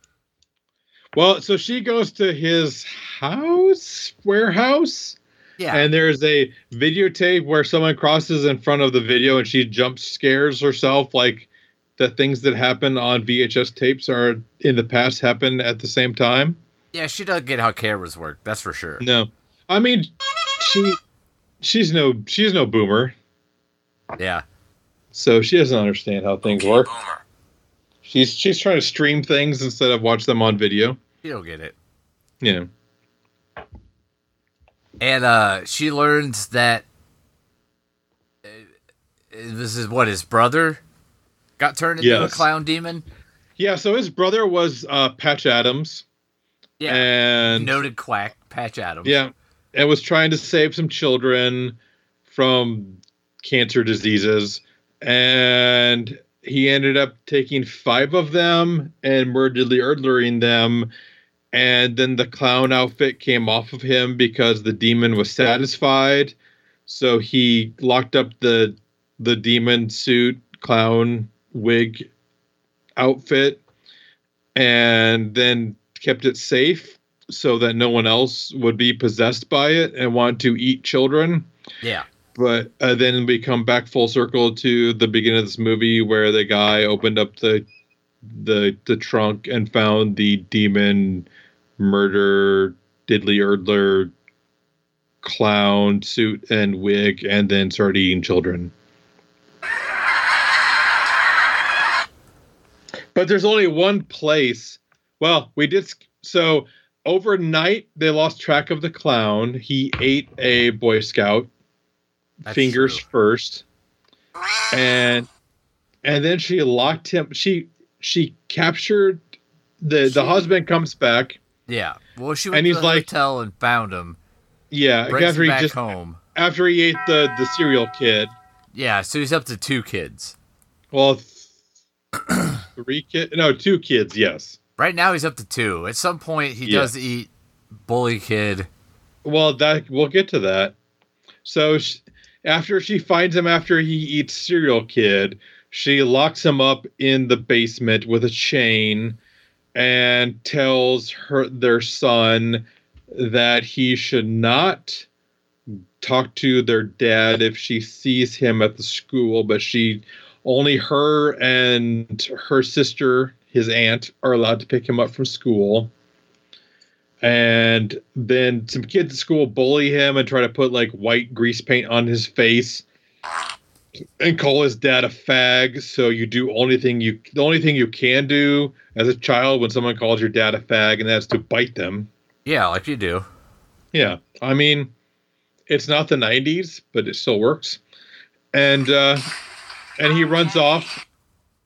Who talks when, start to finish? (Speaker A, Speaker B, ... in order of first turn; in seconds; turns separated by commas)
Speaker A: 1.1-5.2, Speaker B: 5.6-5.8, Speaker A: 5.7-16.6, Speaker B: 16.9-19.0, Speaker A: 19.0-21.0, Speaker A: 21.6-23.1, Speaker B: 24.2-24.4, Speaker A: 25.1-26.9, Speaker A: 28.0-31.0, Speaker B: 31.2-31.7, Speaker A: 32.4-32.7, Speaker B: 35.0-36.8, Speaker B: 39.3-40.8, Speaker B: 41.6-43.0, Speaker A: 42.0-42.5, Speaker A: 43.6-46.0, Speaker B: 46.8-49.2, Speaker A: 46.9-47.8, Speaker A: 49.0-51.8, Speaker A: 52.3-60.9, Speaker A: 61.5-66.3, Speaker A: 66.9-72.1, Speaker A: 73.0-73.6, Speaker A: 74.5-81.5, Speaker A: 82.3-87.7, Speaker A: 88.2-91.3, Speaker A: 91.8-94.1, Speaker A: 95.2-98.7, Speaker A: 103.1-111.5, Speaker A: 112.4-113.6, Speaker B: 112.5-113.0, Speaker A: 114.7-115.3, Speaker A: 116.0-119.2, Speaker A: 119.8-121.4, Speaker B: 121.7-124.2, Speaker A: 122.5-123.1, Speaker A: 124.7-125.8, Speaker B: 125.1-126.2, Speaker A: 126.3-128.3, Speaker B: 128.7-130.3, Speaker A: 130.9-131.5, Speaker A: 132.7-134.6, Speaker B: 134.8-137.3, Speaker A: 136.6-136.9, Speaker B: 137.8-138.7, Speaker A: 139.2-140.7, Speaker A: 141.4-149.2, Speaker A: 149.7-155.1, Speaker A: 155.7-165.9, Speaker A: 167.2-172.8, Speaker A: 174.2-182.1, Speaker B: 182.4-183.3, Speaker A: 183.9-184.9, Speaker A: 185.7-187.8, Speaker A: 188.5-189.2, Speaker A: 190.0-191.0